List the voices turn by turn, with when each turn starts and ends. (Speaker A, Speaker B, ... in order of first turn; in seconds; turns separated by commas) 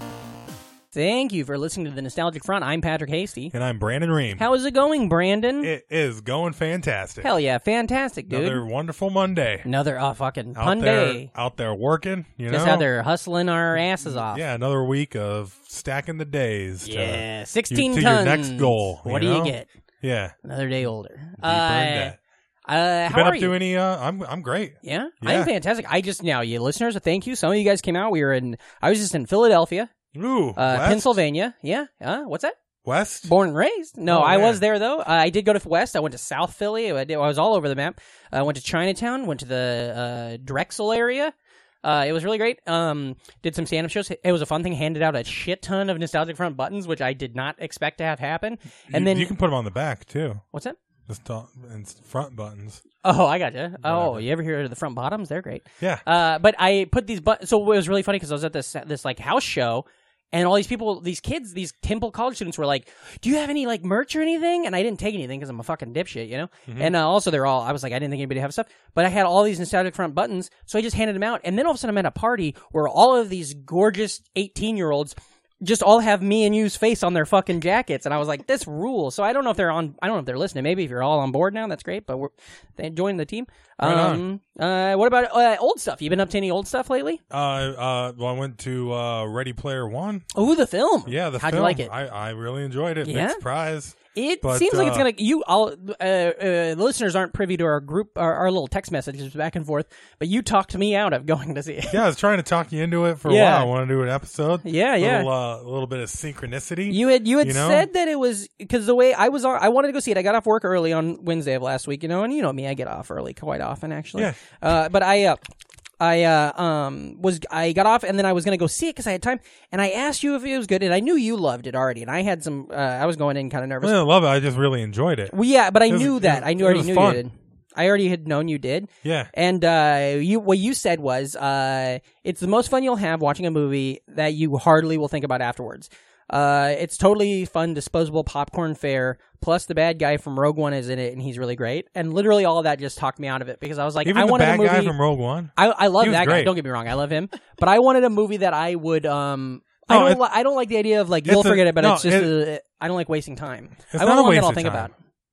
Speaker A: 0.9-3.5, Speaker B: 3.5-4.5, Speaker A: 4.4-5.7, Speaker B: 5.6-7.3, Speaker A: 7.2-8.6, Speaker B: 8.3-9.7, Speaker A: 9.6-11.3, Speaker B: 10.5-12.9, Speaker A: 12.5-14.4, Speaker B: 14.0-20.4, Speaker A: 16.8-19.7, Speaker A: 20.4-22.1, Speaker B: 21.4-22.2, Speaker A: 22.7-23.5, Speaker B: 23.1-25.5, Speaker A: 24.8-29.9, Speaker B: 30.1-31.2, Speaker A: 30.6-32.5, Speaker B: 32.8-33.3, Speaker A: 33.2-49.3, Speaker B: 34.1-34.6, Speaker B: 48.9-50.4, Speaker B: 51.1-52.8, Speaker A: 53.0-87.2, Speaker B: 53.8-54.2, Speaker B: 66.7-66.9, Speaker B: 83.8-84.2, Speaker B: 87.3-90.3, Speaker A: 90.3-91.9, Speaker B: 91.0-95.1, Speaker A: 93.0-93.4, Speaker A: 94.1-102.0, Speaker B: 101.9-107.9, Speaker A: 103.2-103.7, Speaker A: 104.6-105.3, Speaker A: 106.9-115.4, Speaker A: 116.0-123.9, Speaker B: 123.8-125.3, Speaker A: 125.3-144.9, Speaker B: 125.9-127.2, Speaker B: 129.0-129.3, Speaker B: 144.0-146.5, Speaker A: 145.6-154.9, Speaker B: 149.9-150.2, Speaker B: 151.2-152.3, Speaker B: 153.9-154.9